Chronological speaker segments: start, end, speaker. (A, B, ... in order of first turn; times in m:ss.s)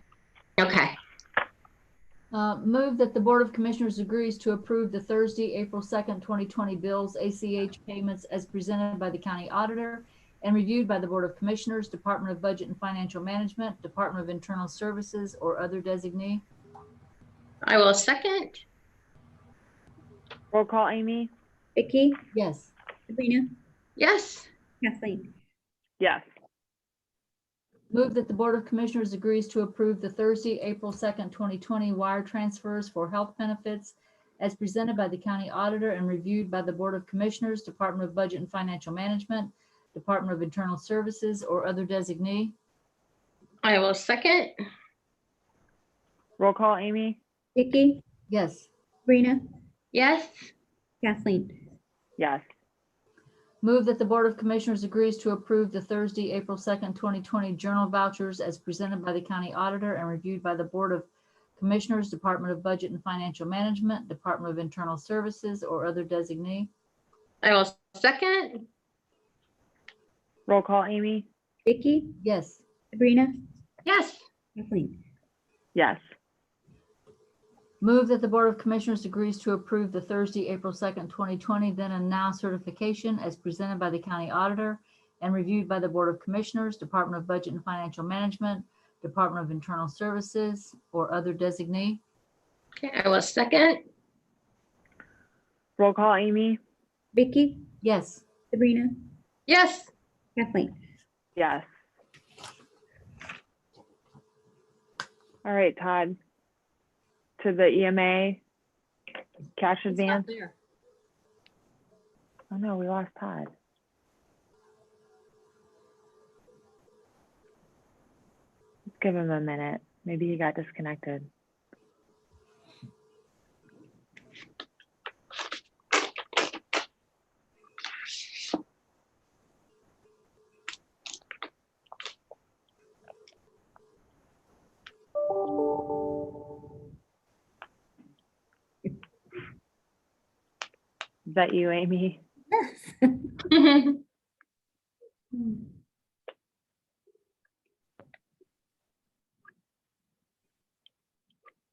0:00.6-0:01.0 A
0:02.3-0:16.4 B
0:17.6-0:18.6 A
0:20.5-0:21.3 C
0:21.8-0:22.2 D
0:22.3-0:22.7 B
0:23.1-0:23.5 D
0:24.0-0:24.5 A
0:24.8-0:25.3 D
0:27.9-0:42.5 B
0:43.6-0:44.5 A
0:46.4-0:47.2 C
0:47.6-0:48.0 D
0:48.3-0:48.7 B
0:49.1-0:49.4 D
0:49.9-0:50.5 A
0:51.0-0:51.6 D
0:52.2-0:52.4 C
0:53.6-1:06.7 B
1:07.4-1:08.6 A
1:10.5-1:11.2 C
1:11.6-1:12.2 D
1:12.2-1:12.6 B
1:12.9-1:13.4 D
1:13.8-1:14.2 A
1:14.6-1:15.0 D
1:15.7-1:16.0 C
1:17.8-1:32.0 B
1:32.8-1:33.8 A
1:35.8-1:36.6 C
1:37.1-1:37.7 D
1:37.8-1:38.3 B
1:38.5-1:39.0 D
1:39.5-1:39.9 A
1:40.4-1:40.7 D
1:41.4-1:41.6 C
1:45.4-1:46.2 C
1:47.4-1:48.4 C
1:49.6-1:50.3 C
1:49.9-1:50.5 B
1:52.5-1:53.5 C
1:59.0-2:01.3 C
2:21.3-2:22.2 C
2:23.5-2:24.0 A